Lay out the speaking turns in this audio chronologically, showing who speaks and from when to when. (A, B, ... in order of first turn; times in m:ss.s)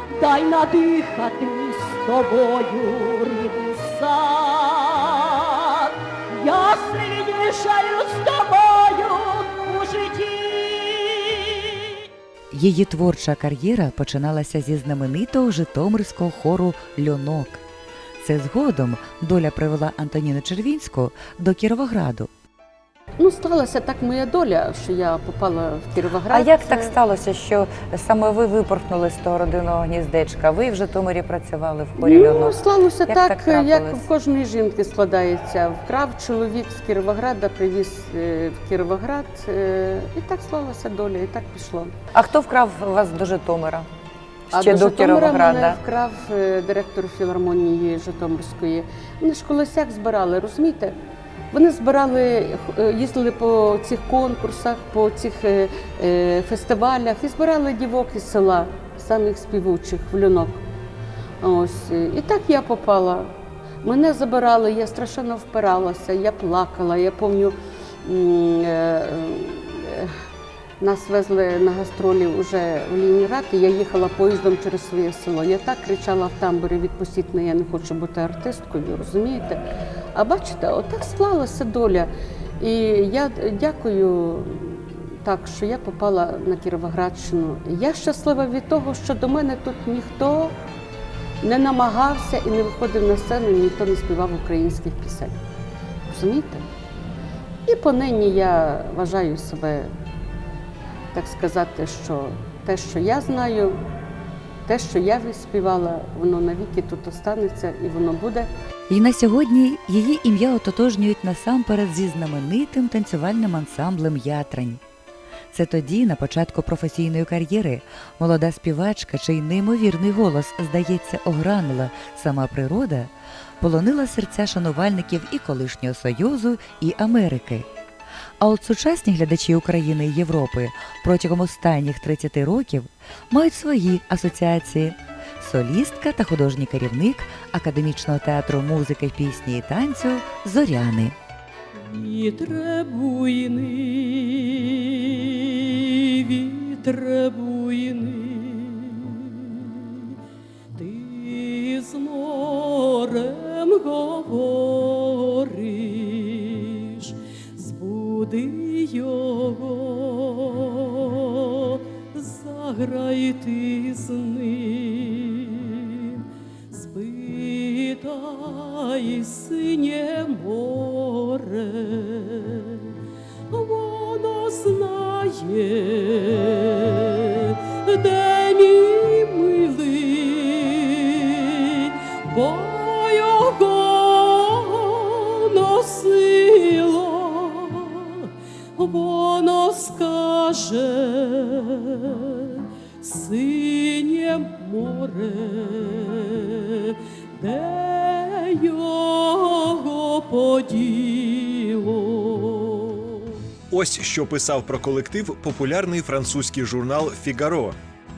0:00.1-0:12.0 A
0:12.5-0:17.6 B
0:18.2-0:22.3 B
0:23.2-0:26.9 C
0:26.3-0:34.0 D
0:32.0-0:41.9 C
0:42.1-0:43.9 D
0:44.5-0:50.9 C
0:44.5-0:45.8 D
0:51.5-1:00.6 C
1:01.4-1:03.3 C
1:03.8-1:10.1 C
1:10.8-1:19.6 C
1:20.1-1:30.5 C
1:31.4-1:35.4 C
1:36.1-1:36.6 C
1:37.7-1:39.9 C
1:41.1-1:43.8 C
1:44.6-1:48.5 C
1:48.9-1:54.8 B
1:55.5-2:07.7 B
2:08.4-2:21.2 B
2:21.7-2:30.1 A
2:30.7-2:52.9 A
2:53.5-3:23.3 A
3:23.7-3:27.7 E